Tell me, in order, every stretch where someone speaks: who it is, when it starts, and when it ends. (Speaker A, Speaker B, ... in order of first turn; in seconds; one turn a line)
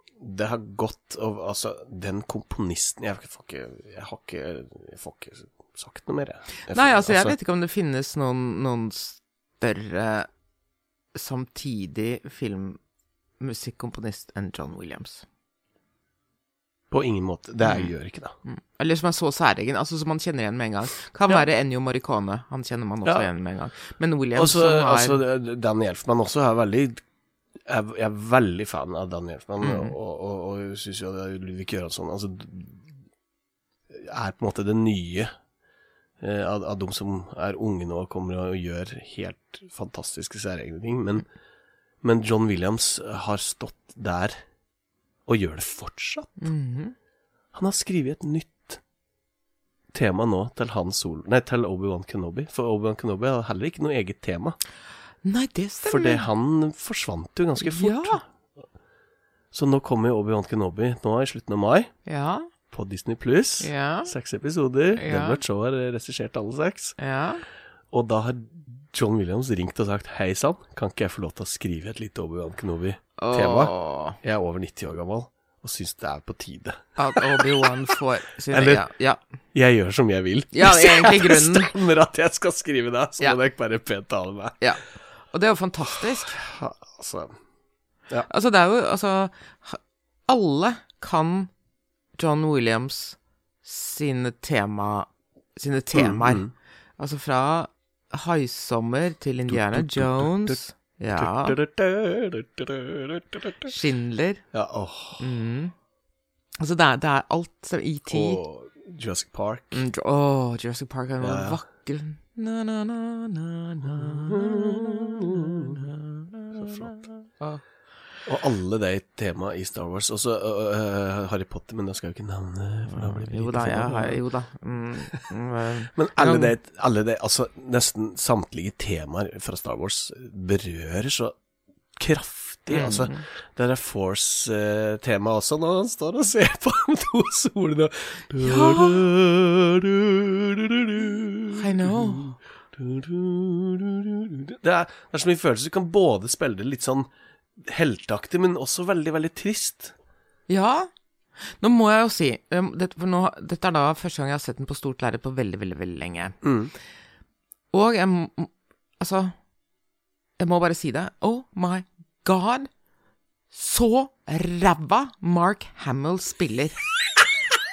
Speaker A: 0.2-7.3
Speaker B: 6.7-10.3
Speaker B: 11.1-12.8
Speaker B: 13.4-15.2
Speaker A: 16.9-18.3
Speaker B: 17.6-17.9
Speaker B: 18.4-25.2
Speaker A: 24.3-27.0
Speaker A: 27.6-32.8
Speaker B: 29.6-29.9
Speaker A: 33.9-35.3
Speaker A: 36.2-41.3
Speaker A: 42.0-44.4
Speaker A: 45.2-46.5
Speaker B: 46.4-46.9
Speaker A: 47.5-48.8
Speaker A: 49.9-54.6
Speaker B: 55.2-56.2
Speaker A: 55.8-58.2
Speaker B: 57.6-58.2
Speaker A: 59.5-61.9
Speaker B: 62.0-62.5
Speaker A: 62.7-67.0
Speaker B: 63.6-64.1
Speaker B: 65.0-65.4
Speaker B: 67.0-67.4
Speaker A: 67.9-77.7
Speaker B: 73.2-74.2
Speaker B: 77.0-79.2
Speaker A: 78.5-78.8
Speaker A: 79.5-84.6
Speaker B: 80.5-81.7
Speaker B: 85.3-86.4
Speaker A: 86.4-87.3
Speaker B: 88.3-91.5
Speaker B: 92.2-96.4
Speaker A: 95.9-96.5
Speaker B: 97.0-101.5
Speaker A: 99.5-100.6
Speaker A: 101.1-103.7
Speaker B: 103.6-104.4
Speaker A: 104.5-105.3
Speaker B: 105.2-105.7
Speaker B: 106.6-108.4
Speaker A: 108.1-109.8
Speaker B: 109.7-117.6
Speaker A: 111.2-111.6
Speaker A: 113.8-115.9
Speaker A: 116.5-117.0
Speaker A: 118.2-124.2
Speaker B: 122.9-126.5
Speaker A: 125.9-131.3
Speaker A: 132.0-147.1
Speaker B: 132.7-133.2
Speaker B: 138.4-139.0
Speaker B: 141.5-142.3
Speaker A: 147.6-149.9
Speaker B: 150.5-150.9
Speaker B: 151.6-156.4
Speaker A: 156.4-156.7
Speaker B: 157.7-159.3
Speaker B: 160.4-162.7
Speaker B: 163.5-166.8